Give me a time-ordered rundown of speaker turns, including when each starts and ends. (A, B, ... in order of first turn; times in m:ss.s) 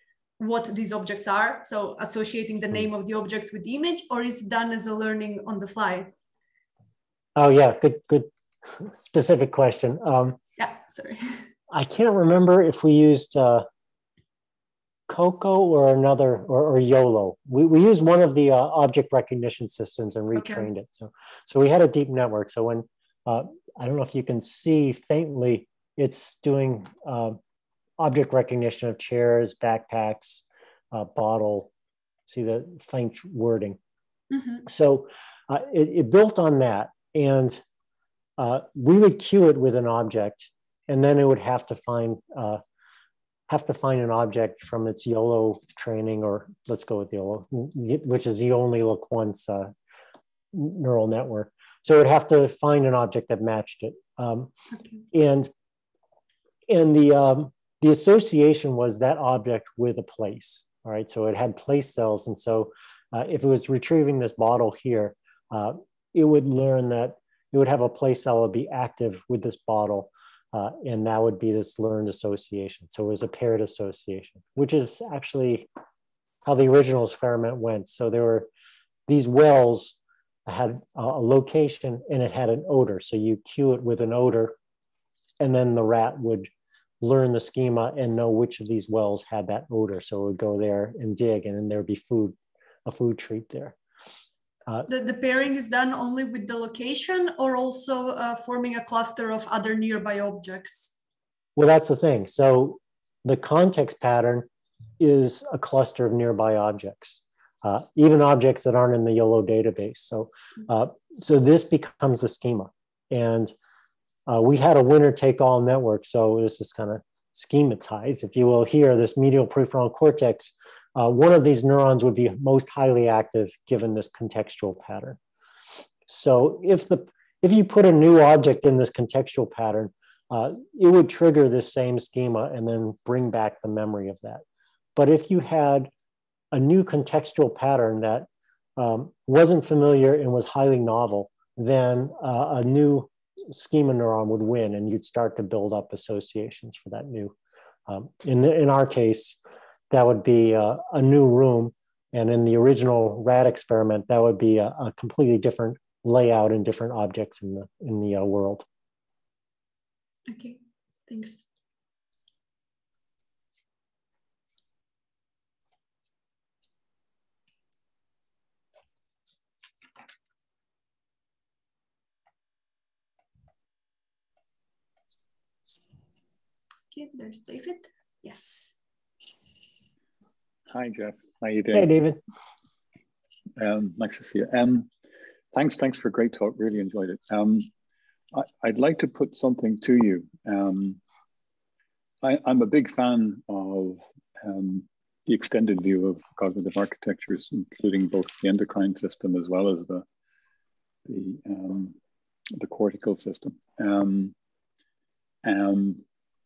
0:00.4-0:06.1 A
0:07.4-0:10.4 B
0:10.6-0:11.4 A
0:11.7-0:13.7 B
0:15.1-0:27.4 B
0:20.4-0:20.7 A
0:28.0-0:31.7 B
0:32.3-0:33.8 B
0:34.3-0:34.6 A
0:34.7-0:37.6 B
0:38.4-0:42.6 B
0:43.5-0:49.7 B
0:50.5-0:54.5 B
0:54.8-0:55.0 A
0:55.1-0:55.5 B
0:56.7-1:15.7 B
1:16.4-1:18.5 B
1:19.1-1:24.6 B
1:25.4-1:26.5 B
1:27.0-1:33.8 B
1:34.9-1:40.9 A
1:41.6-1:44.5 B
1:45.0-1:53.5 B
1:54.3-2:05.2 B
2:06.1-2:14.4 B
2:15.0-2:15.9 B
2:16.5-2:27.4 B
2:27.9-2:29.4 B
2:29.9-2:38.6 B
2:40.3-2:41.4 A
2:56.9-2:58.8 A
3:00.7-3:01.9 C
3:01.7-3:02.2 B
3:03.6-3:04.9 C
3:05.5-3:07.7 C
3:08.3-3:11.0 C
3:12.2-3:20.0 C
3:21.1-3:22.0 C
3:22.6-3:24.3 C
3:25.4-3:26.0 C